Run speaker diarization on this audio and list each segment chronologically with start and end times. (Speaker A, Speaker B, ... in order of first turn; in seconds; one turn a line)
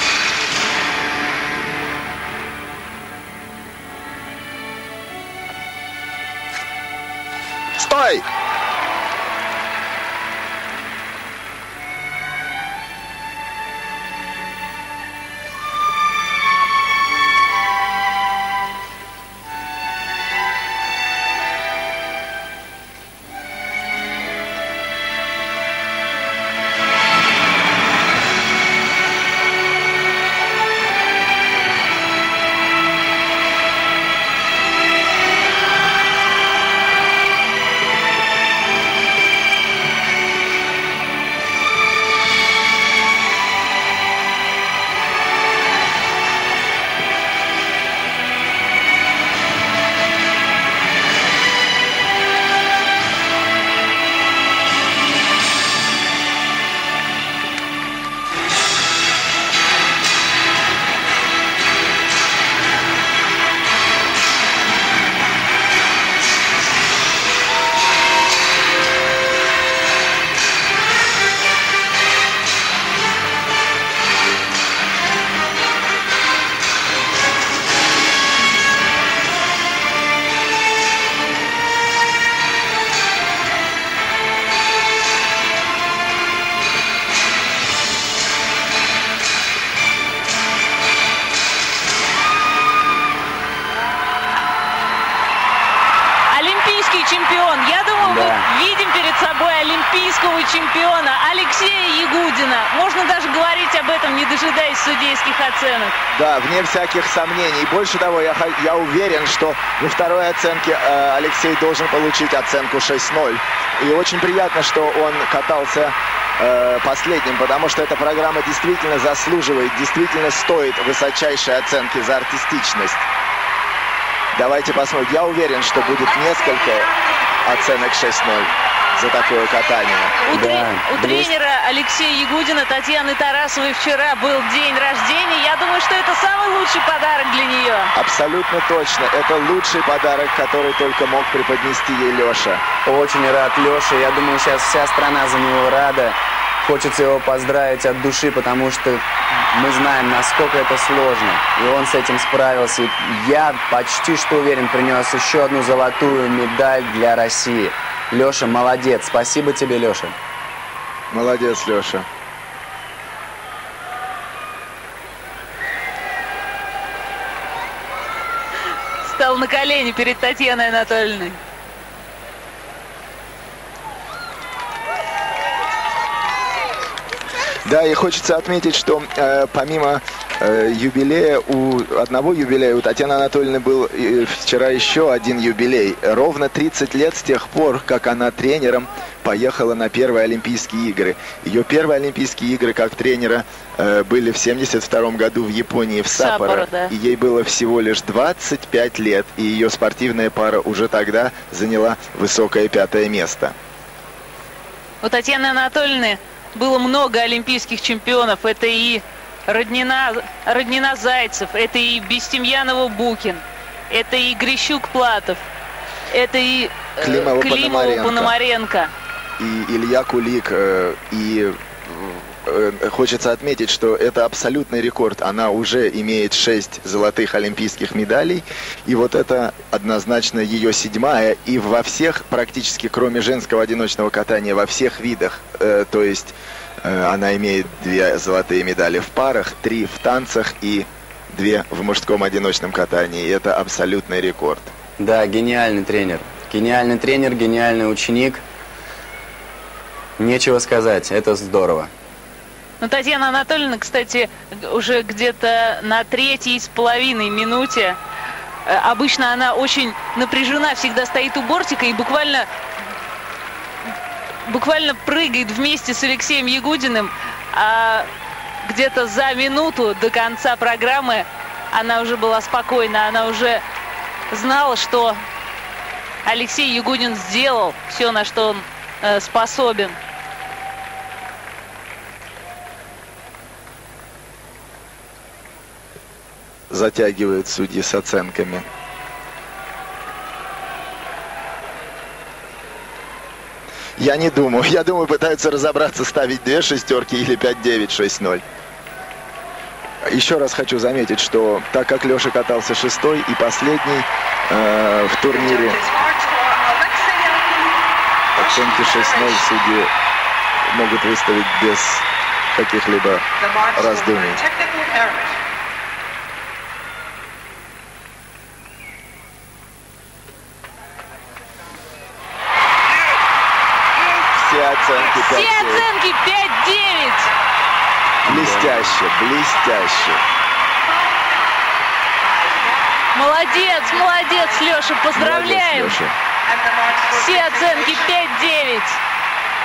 Speaker A: 7.8-8.2
Speaker B: 96.3-105.9
Speaker C: 98.0-98.5
Speaker A: 106.1-123.0
Speaker A: 124.3-130.2
Speaker B: 130.3-137.9
Speaker C: 130.3-131.3
Speaker A: 137.9-142.6
Speaker C: 142.8-160.1
Speaker A: 161.1-162.1
Speaker B: 169.0-171.4
Speaker A: 177.6-203.6
Speaker B: 196.1-196.9
Speaker B: 205.0-215.4
Speaker B: 216.1-218.9
Speaker A: 217.0-218.3
Speaker A: 219.4-244.7
Speaker C: 245.0-248.4
Speaker C: 250.2-251.9
Speaker B: 252.8-258.0
Speaker B: 258.6-262.5
Speaker B: 264.4-268.1
Speaker B: 268.6-273.6
Speaker B: 274.3-275.2
Speaker B: 276.2-280.0
Speaker A: 286.7-288.7
Speaker A: 294.0-298.4
Speaker A: 300.1-305.8
Speaker A: 308.3-309.9
Speaker A: 310.7-314.5
Speaker A: 324.2-325.9
Speaker B: 325.1-327.3
Speaker A: 328.2-330.2
Speaker C: 328.2-329.0
Speaker B: 333.1-336.0
Speaker A: 335.1-336.1
Speaker B: 337.0-339.0